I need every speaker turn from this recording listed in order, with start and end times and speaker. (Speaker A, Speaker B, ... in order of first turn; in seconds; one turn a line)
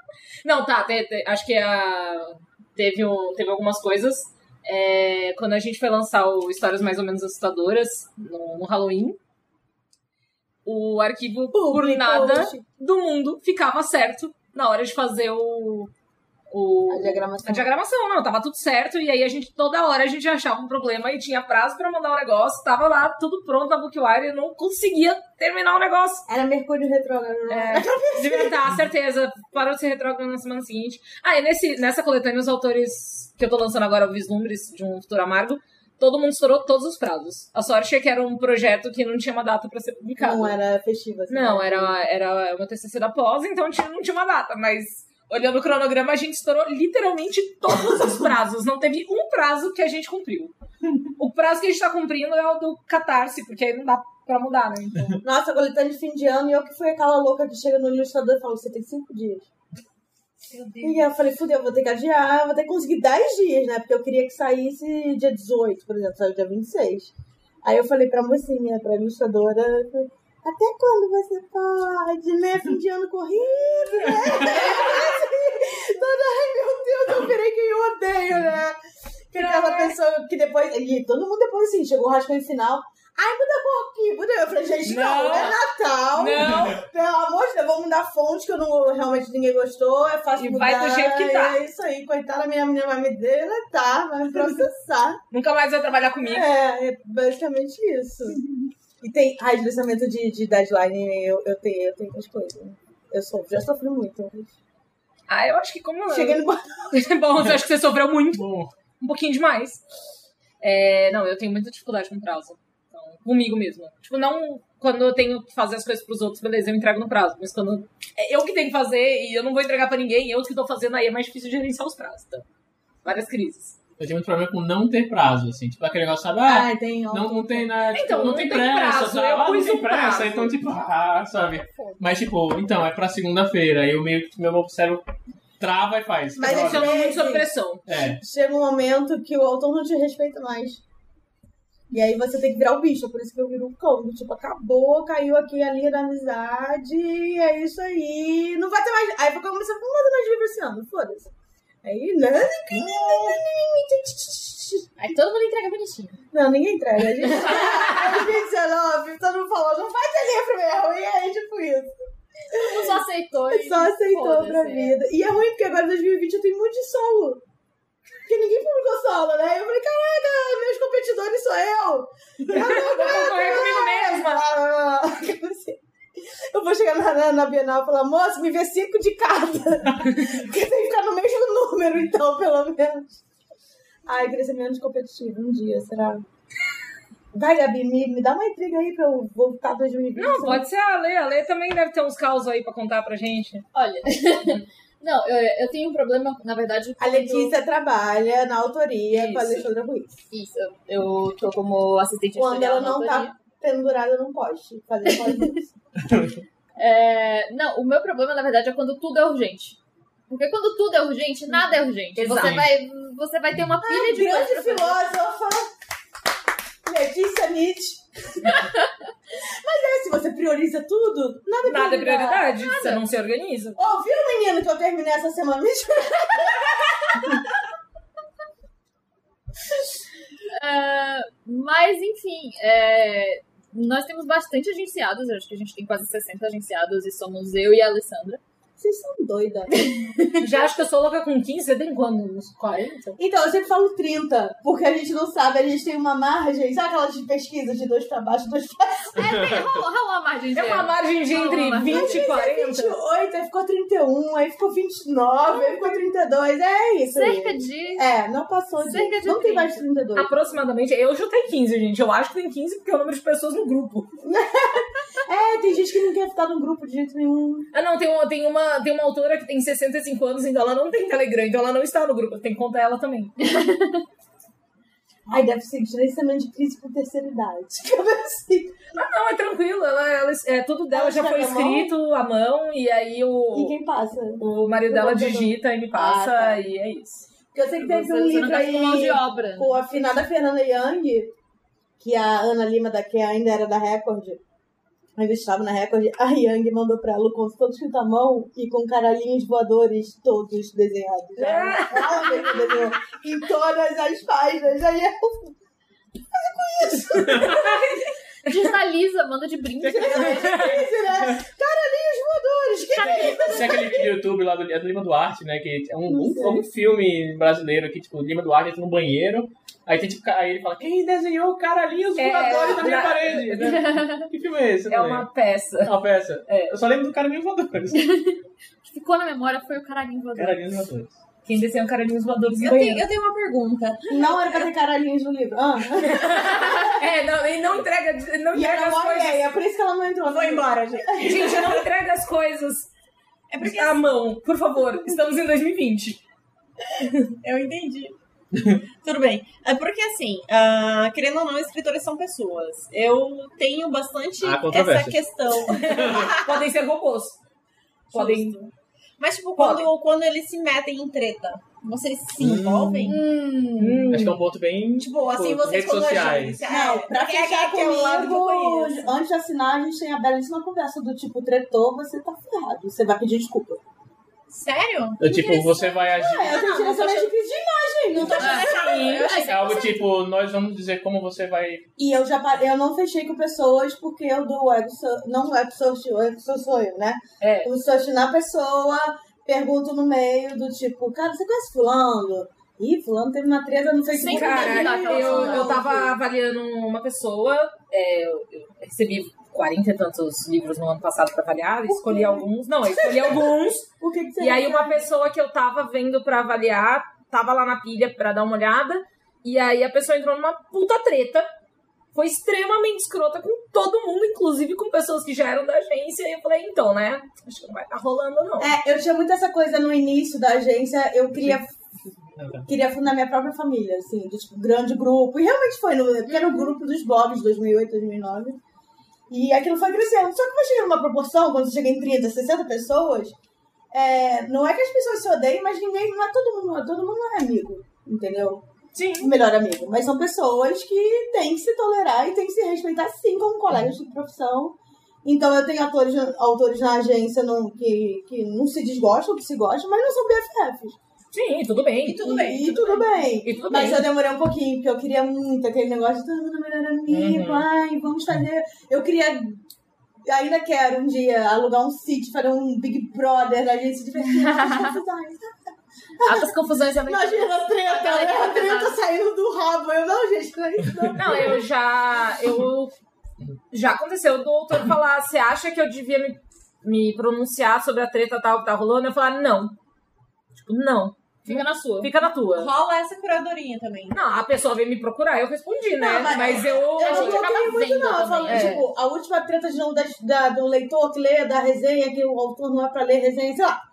Speaker A: 0.4-9.2
Speaker A: 10.6-15.9
Speaker B: 11.5-12.6
Speaker A: 16.5-26.2
Speaker B: 16.9-17.7
Speaker B: 26.3-28.6
Speaker A: 27.5-40.6
Speaker B: 40.2-41.9
Speaker A: 41.3-50.5
Speaker A: 51.2-55.2
Speaker B: 55.2-59.5
Speaker B: 60.8-95.2
Speaker A: 79.4-79.9
Speaker A: 84.8-85.6
Speaker A: 86.1-86.8
Speaker A: 90.4-91.6
Speaker A: 95.3-96.5
Speaker B: 96.2-98.4
Speaker B: 99.0-104.5
Speaker A: 105.3-109.8
Speaker B: 106.1-107.0
Speaker C: 108.3-108.7
Speaker A: 110.6-122.4
Speaker A: 123.0-123.8
Speaker C: 124.0-135.0
Speaker B: 126.4-127.7
Speaker A: 127.9-130.6
Speaker D: 131.3-132.2
Speaker C: 135.6-136.9
Speaker B: 136.3-140.8
Speaker A: 136.4-137.8
Speaker C: 137.9-138.2
Speaker B: 141.9-154.9
Speaker D: 155.0-156.2
Speaker B: 156.3-161.9
Speaker D: 162.5-165.0
Speaker B: 162.5-167.4
Speaker B: 168.2-183.2
Speaker A: 172.5-174.4
Speaker B: 184.1-186.2
Speaker B: 187.3-190.7
Speaker A: 190.2-193.7
Speaker D: 193.7-197.6
Speaker B: 197.0-200.2
Speaker A: 199.1-199.7
Speaker D: 200.3-203.3
Speaker B: 202.3-205.6
Speaker C: 206.1-206.4
Speaker D: 206.8-209.8
Speaker D: 210.3-215.0
Speaker A: 212.2-212.7
Speaker C: 212.4-212.7
Speaker B: 213.8-215.7
Speaker B: 216.8-218.7
Speaker B: 219.3-222.4
Speaker A: 221.6-223.8
Speaker D: 222.5-223.0
Speaker B: 223.8-227.4
Speaker D: 230.5-238.4
Speaker B: 238.8-240.0
Speaker A: 240.4-243.2
Speaker B: 243.2-249.1
Speaker D: 249.1-252.2
Speaker C: 249.3-249.7
Speaker A: 250.5-253.0
Speaker B: 251.8-260.3
Speaker D: 257.1-258.1
Speaker D: 258.8-259.8
Speaker A: 260.1-264.1
Speaker B: 264.2-267.7
Speaker A: 267.7-273.4
Speaker D: 273.4-274.0
Speaker B: 275.3-278.9
Speaker A: 278.9-283.8
Speaker B: 280.9-281.9
Speaker B: 283.5-286.6
Speaker A: 284.4-287.3
Speaker B: 287.5-291.3
Speaker D: 287.8-289.8
Speaker B: 292.0-294.4
Speaker B: 295.2-305.6
Speaker A: 301.4-302.4
Speaker B: 306.3-307.8
Speaker C: 307.2-307.9
Speaker D: 308.4-310.7
Speaker C: 309.8-310.2
Speaker B: 309.9-314.0
Speaker A: 310.4-310.8
Speaker D: 312.9-314.1
Speaker C: 313.4-325.3
Speaker B: 316.1-316.6
Speaker A: 322.1-323.8
Speaker D: 323.5-324.3
Speaker A: 324.9-326.8
Speaker C: 325.8-328.1
Speaker D: 327.9-330.8
Speaker C: 330.4-331.1
Speaker A: 331.4-333.1
Speaker E: 332.6-334.4
Speaker B: 334.1-336.8
Speaker A: 336.0-339.4
Speaker B: 338.5-341.5
Speaker E: 340.2-341.8
Speaker A: 341.2-342.9
Speaker E: 343.5-344.1
Speaker A: 343.6-346.2
Speaker E: 347.4-348.1
Speaker E: 349.0-356.7
Speaker C: 354.4-355.2
Speaker A: 355.7-357.4
Speaker C: 355.9-356.3
Speaker A: 358.1-358.6
Speaker E: 358.1-363.2
Speaker A: 359.6-359.9
Speaker C: 362.4-363.1
Speaker D: 363.1-364.1
Speaker A: 363.8-364.4
Speaker C: 364.0-366.6
Speaker E: 364.9-369.1
Speaker B: 366.6-373.8
Speaker E: 374.5-375.9
Speaker C: 375.2-376.6
Speaker B: 376.0-379.0
Speaker A: 376.5-377.3
Speaker E: 378.2-379.8
Speaker D: 378.4-380.0
Speaker A: 378.6-379.2
Speaker C: 378.8-381.9
Speaker B: 382.0-396.1
Speaker A: 387.4-387.7
Speaker D: 394.1-395.9
Speaker A: 394.2-411.5
Speaker B: 401.9-405.0
Speaker A: 412.1-418.7
Speaker B: 418.6-421.7
Speaker C: 422.3-422.7
Speaker B: 422.7-428.6
Speaker B: 429.3-433.4
Speaker B: 433.9-438.6
Speaker A: 438.9-439.3
Speaker B: 439.1-451.0
Speaker A: 451.3-452.4
Speaker E: 452.0-453.2
Speaker B: 452.2-459.6
Speaker A: 453.4-454.1
Speaker A: 457.1-457.7
Speaker B: 460.2-465.5
Speaker D: 464.3-464.9
Speaker B: 466.2-466.5
Speaker D: 466.2-469.0
Speaker B: 467.0-471.6
Speaker A: 471.1-472.9
Speaker A: 473.7-479.8
Speaker A: 480.6-482.7
Speaker D: 481.4-482.1
Speaker E: 482.5-484.2
Speaker A: 484.1-487.5
Speaker B: 486.0-493.8
Speaker E: 486.2-486.8
Speaker D: 487.0-488.8
Speaker A: 488.5-488.9